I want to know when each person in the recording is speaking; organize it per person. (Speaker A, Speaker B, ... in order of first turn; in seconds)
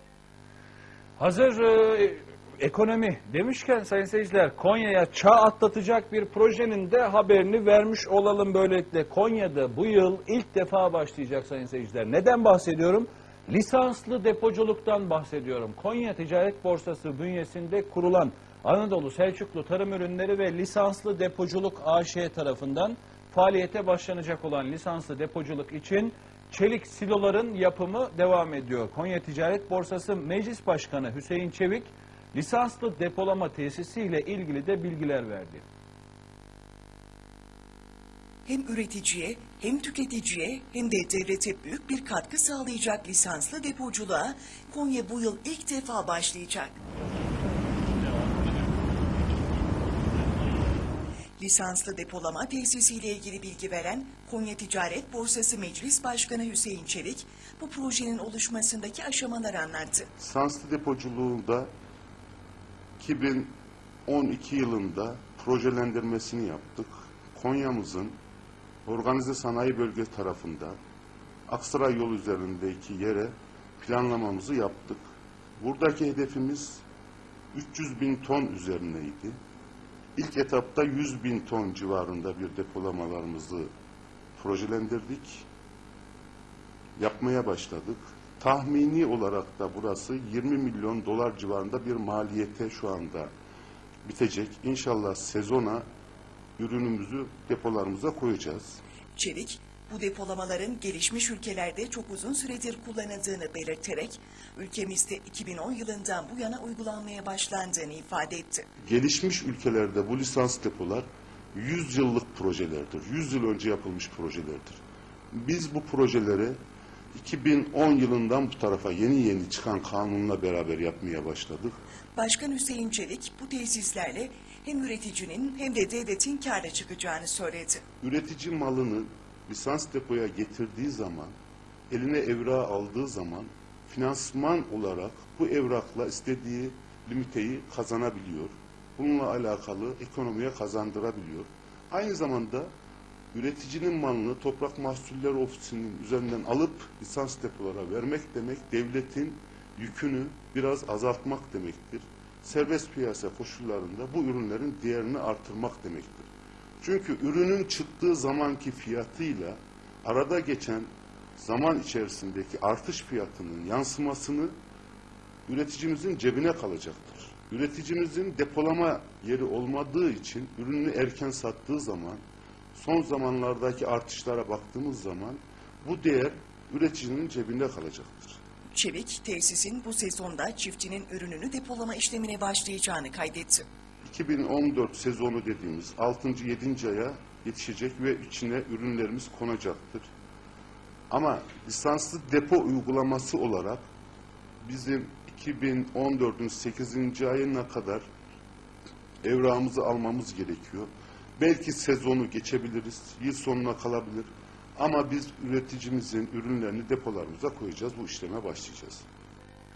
Speaker A: 1.2-35.6
Speaker B: 38.5-46.8, 51.4-60.1, 99.2-108.7, 122.2-127.8, 178.7-183.7
Speaker C: 60.2-61.7, 63.0-68.2, 68.9-70.8, 71.5-75.1, 75.6-76.8, 77.5-79.4, 80.2-83.7, 84.4-85.5, 87.0-93.3, 94.0-95.8, 96.6-98.8, 108.8-114.8, 115.3-116.6, 117.2-121.8, 128.0-131.3, 131.9-142.7, 143.3-156.3, 156.8-164.6, 165.5-172.2, 172.7-178.4, 184.0-190.1, 191.1-193.9, 194.6-198.1, 199.2-209.1